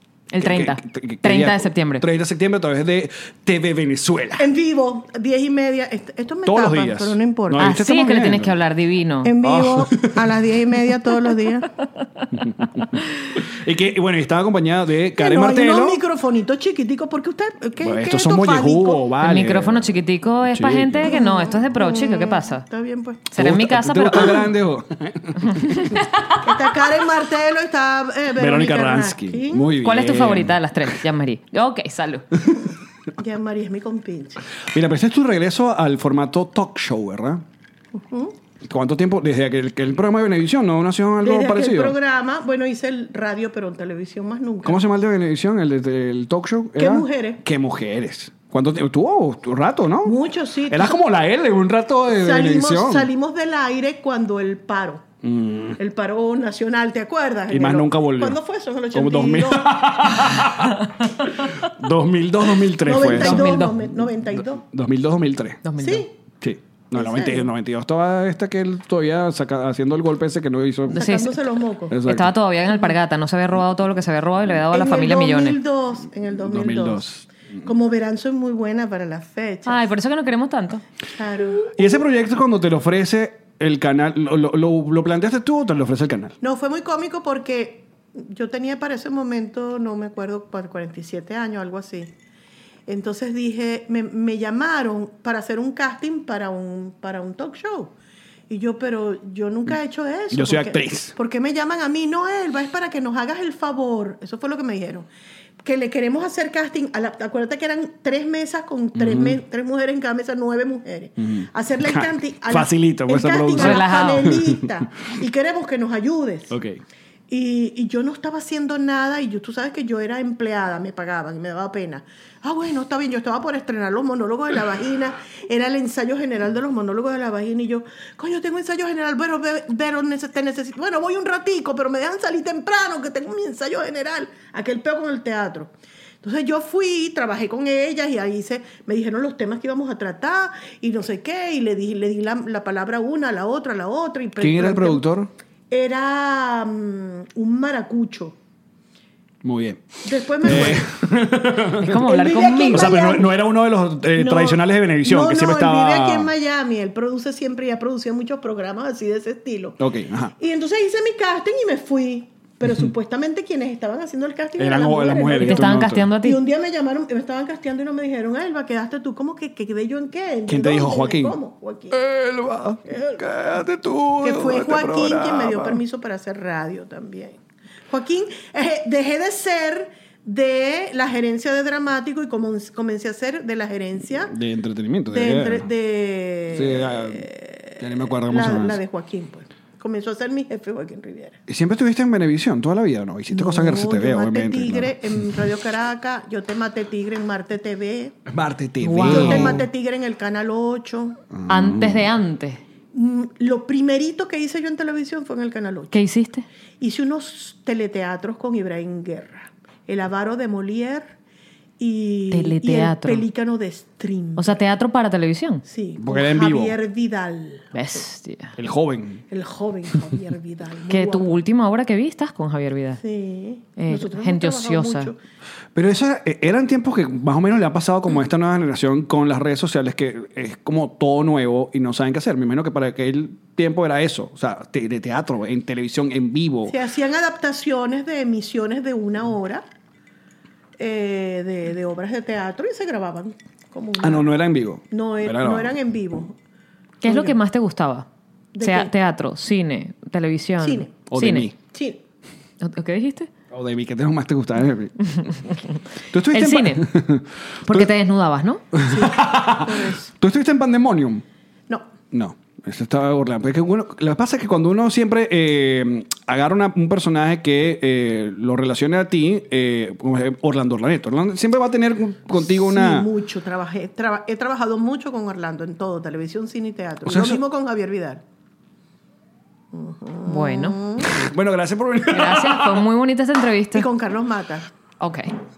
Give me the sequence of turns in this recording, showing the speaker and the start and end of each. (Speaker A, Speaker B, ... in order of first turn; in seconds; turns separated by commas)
Speaker A: 0.3-2.0, Speaker B: 0.4-4.5, Speaker C: 4.4-7.7, Speaker B: 6.4-8.5, Speaker A: 7.6-9.3, Speaker C: 9.2-11.7, Speaker B: 9.4-10.3, Speaker B: 12.3-16.0, Speaker C: 15.2-19.0, Speaker B: 17.8-19.9, Speaker A: 19.2-22.6, Speaker B: 20.5-21.1, Speaker C: 21.1-23.3, Speaker A: 23.3-24.4, Speaker B: 23.4-26.0, Speaker A: 25.5-26.4, Speaker C: 26.4-29.7, Speaker B: 28.4-30.9, Speaker A: 29.8-32.3, Speaker C: 33.2-34.4, Speaker B: 34.7-37.4, Speaker C: 37.9-38.3, Speaker B: 38.6-42.0, Speaker C: 41.2-44.8, Speaker B: 44.6-50.2, Speaker C: 46.8-47.4, Speaker C: 50.0-51.0, Speaker B: 50.7-53.1, Speaker C: 52.1-55.0, Speaker B: 55.2-55.8, Speaker C: 55.8-59.9, Speaker B: 57.5-58.4, Speaker B: 58.9-63.8, Speaker C: 62.8-64.6, Speaker A: 63.0-63.8, Speaker B: 64.4-65.6, Speaker A: 65.6-66.1, Speaker C: 65.8-66.1, Speaker B: 66.4-71.1, Speaker C: 66.9-67.5, Speaker A: 70.9-71.4, Speaker C: 70.9-72.0, Speaker B: 71.9-72.3, Speaker A: 72.0-75.6, Speaker C: 74.7-77.1, Speaker B: 76.4-77.3, Speaker C: 77.6-79.8, Speaker A: 79.7-80.8, Speaker C: 81.1-81.9, Speaker B: 81.7-86.3, Speaker C: 86.4-92.1, Speaker C: 92.9-97.9, Speaker C: 98.5-105.1, Speaker B: 100.3-101.1, Speaker C: 105.6-116.5, Speaker B: 109.0-109.4, Speaker B: 111.2-114.7, Speaker A: 113.5-114.3, Speaker B: 116.5-116.8, Speaker C: 117.3-135.7, Speaker C: 136.2-145.0, Speaker B: 144.4-145.3, Speaker C: 145.7-148.4, Speaker B: 149.4-149.8, Speaker C: 150.0-150.9, Speaker B: 150.4-152.0, Speaker A: 151.8-153.1, Speaker C: 152.0-153.3, Speaker B: 152.7-156.3, Speaker C: 154.1-159.8, Speaker B: 159.8-160.3, Speaker C: 160.4-172.0, Speaker B: 164.6-166.1, Speaker A: 165.4-166.4, Speaker B: 170.5-171.3, Speaker B: 171.9-175.8, Speaker C: 172.8-173.2, Speaker C: 174.2-177.4, Speaker C: 177.9-184.3, Speaker B: 184.2-185.7, Speaker C: 185.1-191.4, Speaker B: 186.5-187.2, Speaker B: 187.8-188.8, Speaker B: 191.5-195.0, Speaker C: 193.3-198.2, Speaker B: 198.3-199.6, Speaker A: 198.8-199.7, Speaker C: 199.0-201.2, Speaker B: 201.3-202.1, Speaker A: 201.5-202.6, Speaker C: 202.9-206.0, Speaker A: 205.9-206.5, Speaker C: 206.8-211.1, Speaker C: 211.8-214.6, Speaker A: 212.3-213.2, Speaker A: 214.4-215.6, Speaker C: 215.7-217.7, Speaker B: 216.0-216.8, Speaker A: 217.7-218.5, Speaker B: 218.6-219.2, Speaker C: 219.3-221.4, Speaker A: 220.9-223.0, Speaker C: 223.0-225.2, Speaker A: 223.8-225.1, Speaker B: 225.8-236.8, Speaker C: 236.7-239.6, Speaker C: 240.8-244.3, Speaker B: 244.0-245.8, Speaker C: 244.9-246.3, Speaker A: 247.0-248.1, Speaker C: 247.0-247.4, Speaker C: 248.5-248.9, Speaker A: 248.6-251.5, Speaker C: 250.6-250.9, Speaker B: 251.1-251.5, Speaker C: 251.7-252.0, Speaker A: 252.6-253.3, Speaker B: 253.5-254.9, Speaker A: 255.1-255.8, Speaker B: 256.1-257.9, Speaker A: 256.3-256.8, Speaker A: 257.6-258.6, Speaker B: 258.8-261.2, Speaker C: 258.8-260.1, Speaker B: 262.1-273.1, Speaker C: 272.4-278.2, Speaker B: 277.0-277.4, Speaker C: 279.7-281.1, Speaker A: 280.2-280.8, Speaker B: 281.0-282.8, Speaker A: 282.1-283.9, Speaker C: 283.7-284.7, Speaker A: 285.0-285.3